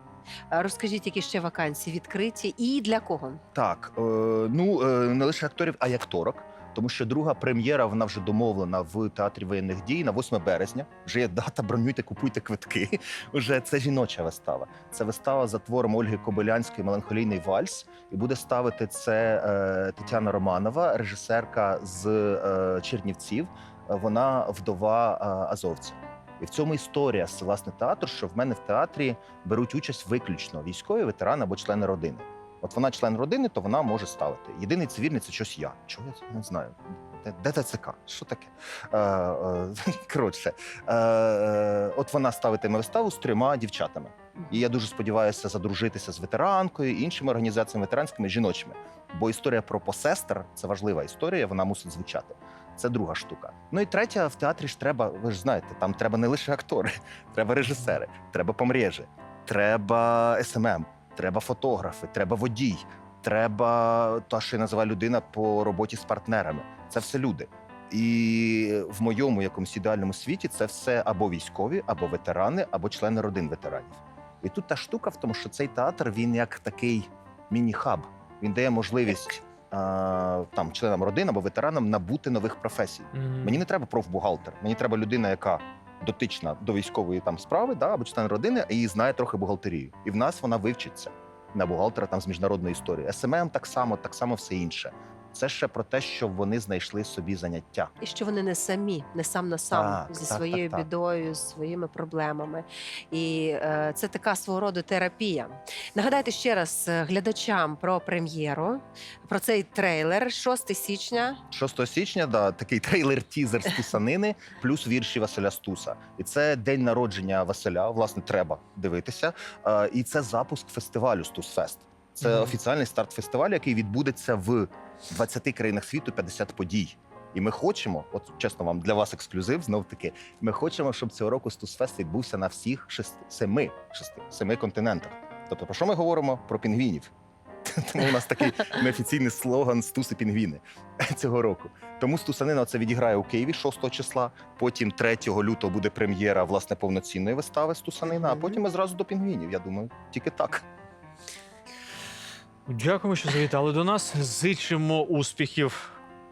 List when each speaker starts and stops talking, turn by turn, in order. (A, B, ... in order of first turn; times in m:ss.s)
0:00.5-0:03.4 A
0:03.5-1:37.9 B
1:23.1-1:23.6 C
1:38.0-1:51.4 A
1:39.7-1:40.9 B
1:51.5-2:17.1 B
2:02.2-2:02.5 C
2:17.6-2:30.6 B
2:32.7-2:35.9 C